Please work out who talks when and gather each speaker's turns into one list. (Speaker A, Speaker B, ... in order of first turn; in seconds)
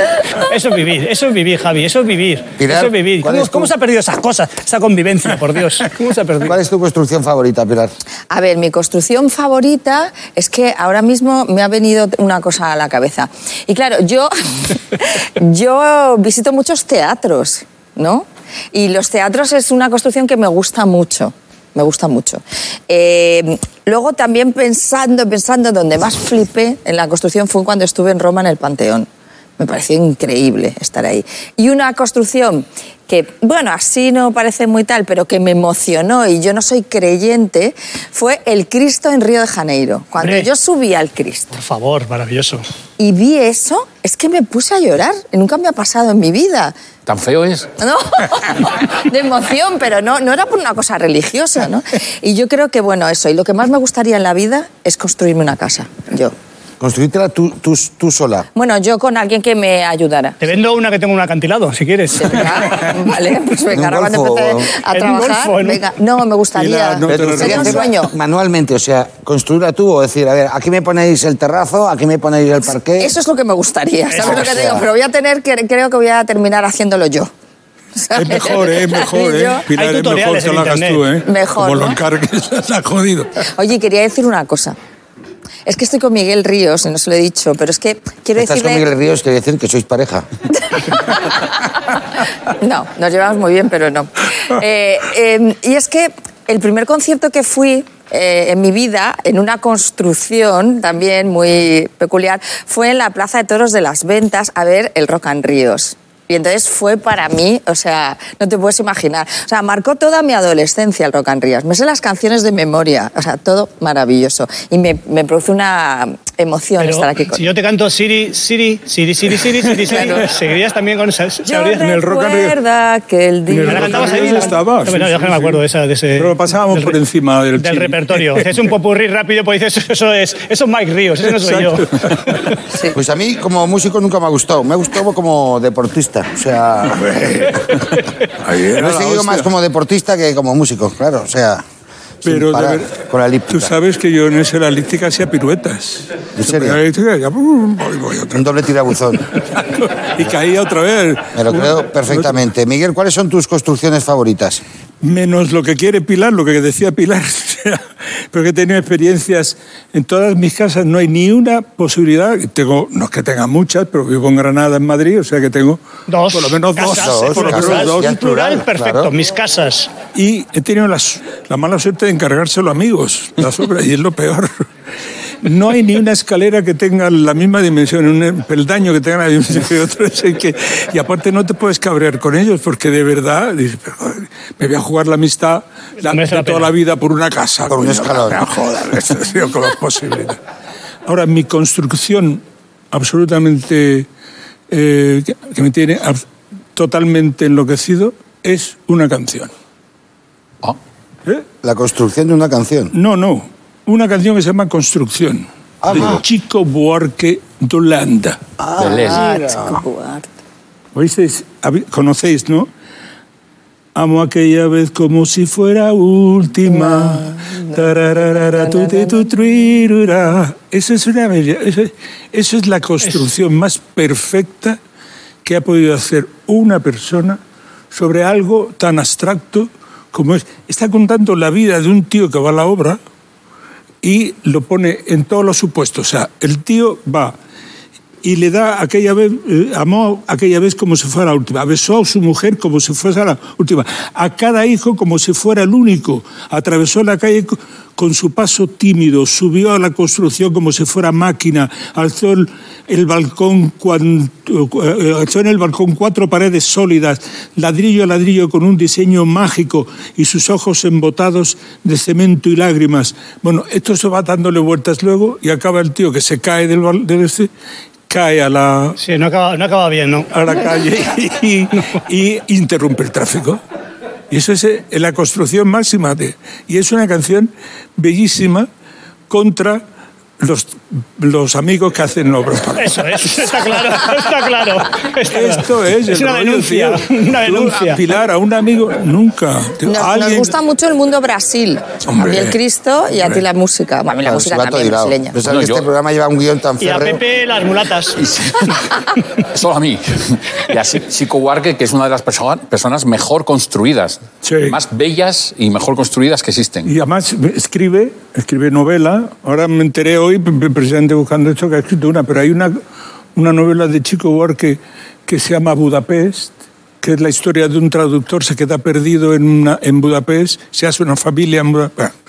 Speaker A: 0.3-6.6, 40.2-40.5, 41.5-42.6, 60.4-62.4, 64.9-65.8, 74.1-74.5, 79.7-81.1, 116.8-121.9, 123.7-127.0, 127.6-132.6, 166.1-169.9, 186.1-186.7, 269.0-270.3, 282.8-288.0, 296.8-298.2
Speaker B: 2.6-3.7, 6.4-7.9, 56.8-58.5, 63.7-64.7, 67.0-73.1, 74.1-74.9, 88.4-90.3, 132.9-137.1, 138.7-141.6, 142.2-143.7, 146.4-146.8, 148.3-149.3, 151.3-154.6, 166.8-169.1, 187.7-188.5, 201.6-202.9, 205.8-206.2, 208.6-209.8, 294.1-297.2
Speaker C: 8.3-29.1, 29.6-41.6, 43.0-46.8, 47.8-56.4, 58.5-60.4, 62.2-68.1, 73.0-77.3, 78.0-79.7, 81.3-82.0, 83.5-84.8, 85.7-88.9, 90.7-91.6, 92.5-117.5, 119.9-120.3, 121.5-124.5, 132.7-133.0, 208.9-210.3, 216.7-219.5, 289.9-295.4
Speaker D: 47.1-47.7, 208.8-209.2, 295.4-295.9, 298.2-306.9
Speaker E: 66.5-67.9, 78.1-83.3, 121.8-122.6, 123.5-125.6, 126.2-128.6, 131.2-132.4, 136.9-139.5, 142.3-142.9, 143.5-148.6, 149.4-152.4, 155.0-165.8, 166.3-168.2, 170.1-174.6, 175.4-190.4, 191.1-194.1, 194.7-196.2, 196.8-199.5, 202.9-208.4, 210.9-212.7, 214.0-224.8, 225.4-227.4, 227.9-233.0, 234.0-237.4, 238.2-267.5, 268.1-269.0, 270.3-273.6, 274.3-278.7, 279.3-279.8, 280.4-284.1, 285.3-290.5, 292.1-292.6, 304.4-304.8, 306.9-312.8, 313.4-322.1